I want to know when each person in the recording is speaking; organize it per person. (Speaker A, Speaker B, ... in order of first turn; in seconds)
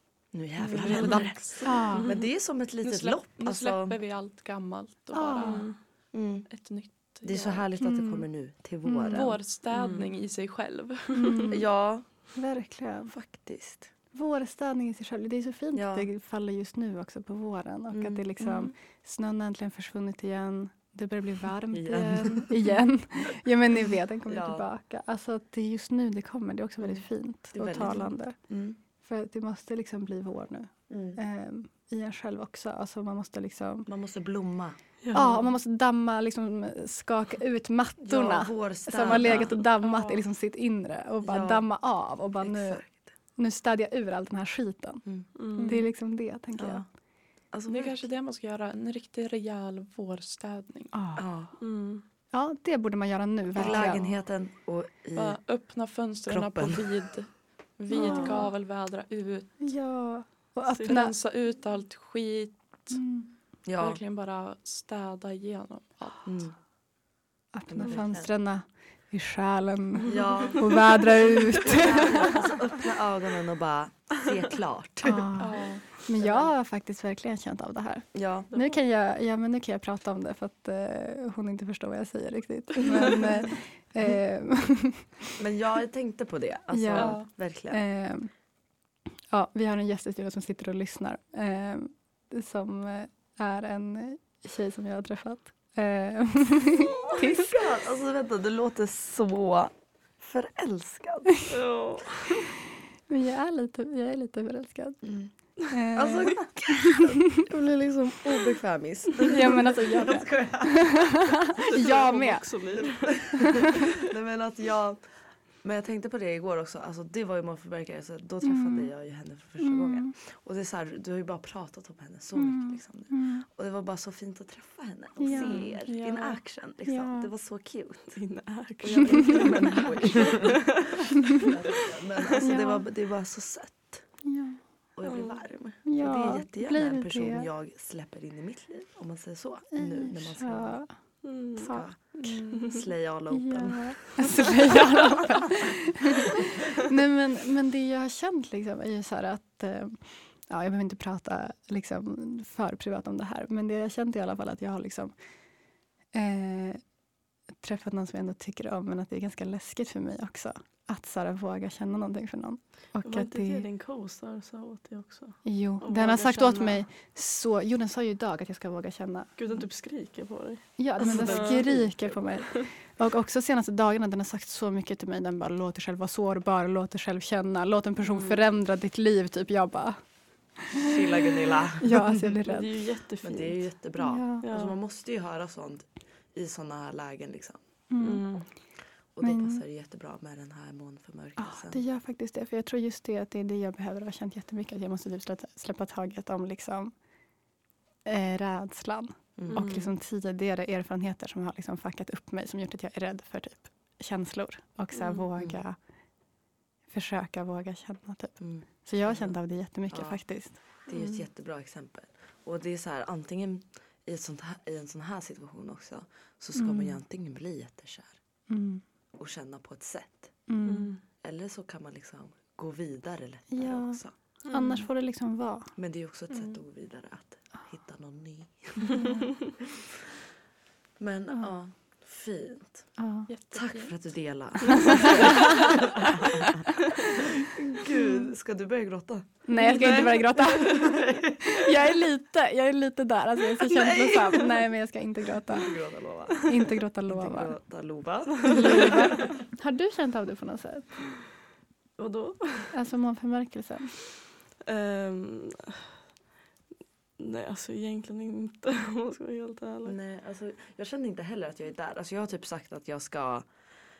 Speaker A: 0.3-4.0, 6.1-6.5, 7.2-9.4, 11.5-12.1, 13.1-13.9, 15.7-16.1, 17.9-18.2, 21.7-22.6, 24.3-24.6, 27.5-28.8, 30.9-31.2, 33.9-34.8, 38.0-39.6, 41.2-41.6, 42.4-43.1, 46.5-46.9, 47.5-48.0, 51.1-51.5, 53.5-55.4, 56.3-56.9, 58.1-58.3, 63.6-64.0, 66.2-66.5, 67.7-68.3, 70.0-75.3, 78.1-78.5, 85.4-87.8, 96.7-101.4, 105.0-105.3, 105.9-111.9, 112.8-115.0, 115.6-128.2, 128.8-134.0, 134.9-140.8, 141.7-142.0, 142.6-144.5, 145.2-145.7, 180.7-182.2, 183.2-187.6, 189.1-191.8, 199.4-199.6, 208.4-209.4, 209.9-210.2, 210.9-218.2, 219.2-220.3, 221.2-224.1, 225.8-229.1, 229.6-230.1, 231.0-232.9, 233.5-241.9, 243.6-244.6, 245.5-246.5, 247.1-249.3, 259.8-263.5
Speaker B: 0.6-1.9, 2.8-5.7, 6.5-7.6, 9.1-11.4, 18.4-18.7, 39.8-40.2, 45.6-45.8, 47.7-50.9, 55.1-59.5, 60.8-63.0, 63.8-66.2, 75.4-75.8, 86.9-87.3, 125.8-126.4, 142.1-142.7, 233.3-233.9, 234.7-235.4
Speaker C: 1.6-2.2, 5.1-5.7, 7.8-8.2, 8.9-9.3, 11.1-11.6, 12.3-13.1, 14.1-28.4, 29.0-33.9, 35.1-42.8, 43.4-45.0, 45.6-46.8, 50.9-51.2, 52.3-54.1, 57.9-58.5, 59.6-61.1, 62.9-63.3, 67.5-72.5, 75.0-85.3, 86.7-88.3, 89.3-97.7, 103.1-105.0, 105.7-107.4, 109.2-112.5, 113.4-113.7, 118.4-118.9, 119.6-120.1, 122.4-123.4, 125.2-125.8, 126.8-127.3, 132.4-132.8, 134.2-134.6, 135.8-137.5, 139.7-140.9, 141.6-142.4, 143.3-155.1, 156.1-156.8, 157.6-163.6, 165.4-169.3, 170.8-180.0, 180.6-182.7, 184.0-184.4, 187.9-188.3, 189.2-189.6, 191.4-196.9, 198.0-205.8, 206.9-210.6, 216.5-217.0, 218.5-218.8, 220.5-220.9, 223.5-224.0, 224.5-225.7, 228.9-229.3, 233.0-233.3, 234.7-235.8, 237.9-238.3, 239.4-245.8, 246.4-247.5, 248.4-250.9, 252.7-253.9
Speaker D: 5.4-5.7, 9.7-10.1, 35.0-35.4, 45.4-45.8, 51.6-52.0, 101.5-102.5, 111.6-113.9, 128.1-132.4, 135.0-135.4, 141.2-141.8, 163.0-166.8, 169.4-172.7, 178.0-178.4, 182.3-183.6, 184.4-184.8, 188.0-188.4, 199.5-199.9, 204.9-205.2, 220.6-221.0, 224.5-224.8, 248.4-248.9, 252.0-252.7, 254.6-255.9, 257.2-259.9